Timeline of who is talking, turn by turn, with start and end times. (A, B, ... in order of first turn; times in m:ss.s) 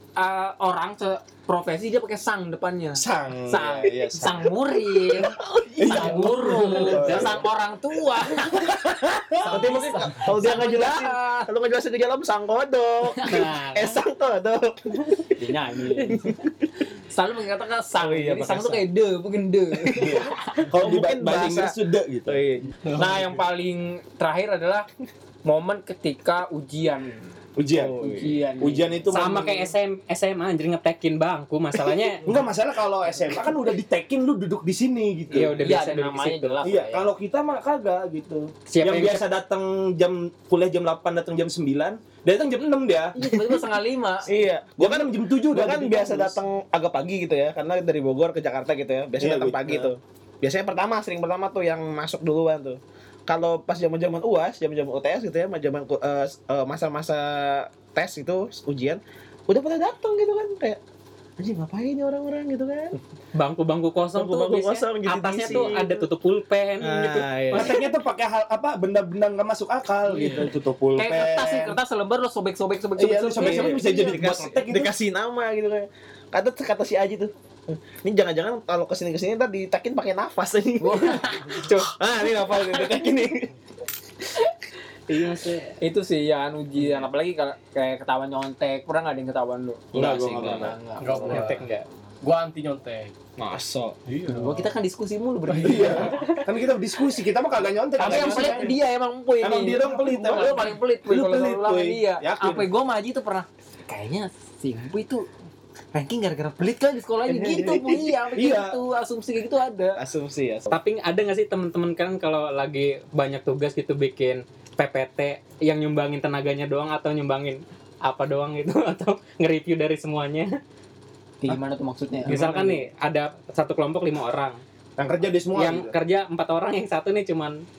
0:00.2-0:11.5 A
0:03.0-0:04.5 B
0:05.1-0:07.4 C
0:05.8-0:07.5 B
0:09.4-0:09.6 B
0:09.4-0:15.2 C
0:13.2-0:13.5 A
0:13.3-0:14.0 D
0:15.4-0:16.3 A
0:16.2-0:16.5 C
0:17.1-0:20.4 A
0:18.0-0:18.8 C
0:19.8-0:21.8 C
0:19.9-0:22.4 B
0:22.3-0:22.7 C
0:22.8-0:23.3 E
0:23.0-0:24.9 A
0:25.4-0:27.3 A
0:27.6-0:29.7 B
0:27.8-0:28.3 E
0:28.0-0:29.4 A
0:29.1-0:32.2 D
0:32.2-0:35.6 B
0:35.3-0:36.6 D
0:35.6-0:37.1 A
0:36.6-0:43.2 B
0:38.7-0:39.2 D
0:43.2-0:44.3 A
0:44.2-1:00.8 C
0:44.8-0:46.4 B
0:49.2-0:49.9 B
1:01.4-1:03.0 C
1:03.3-1:07.7 D
1:04.1-1:06.0 C
1:06.8-1:07.8 C
1:07.5-1:11.8 B
1:10.1-1:14.2 A
1:13.0-1:14.9 B
1:13.4-1:23.5 C
1:20.8-1:21.6 A
1:21.6-1:21.9 D
1:25.1-1:25.8 D
1:25.8-1:31.6 A
1:29.9-1:30.8 C
1:29.9-1:30.8 B
1:31.0-1:31.7 E
1:31.2-1:31.8 D
1:32.2-1:33.1 E
1:33.4-1:34.0 C
1:34.1-1:34.7 E
1:34.3-1:36.3 A
1:35.5-1:35.9 E
1:35.6-1:38.8 B
1:38.0-1:45.3 A
1:38.0-1:38.5 C
1:39.4-1:42.7 B
1:45.9-1:50.0 A
1:47.3-1:48.8 B
1:50.0-1:50.8 C
1:50.7-2:00.5 D
2:01.4-2:02.7 A
2:02.2-2:02.8 B
2:02.2-2:04.6 D
2:05.0-2:06.0 B
2:05.5-2:07.6 D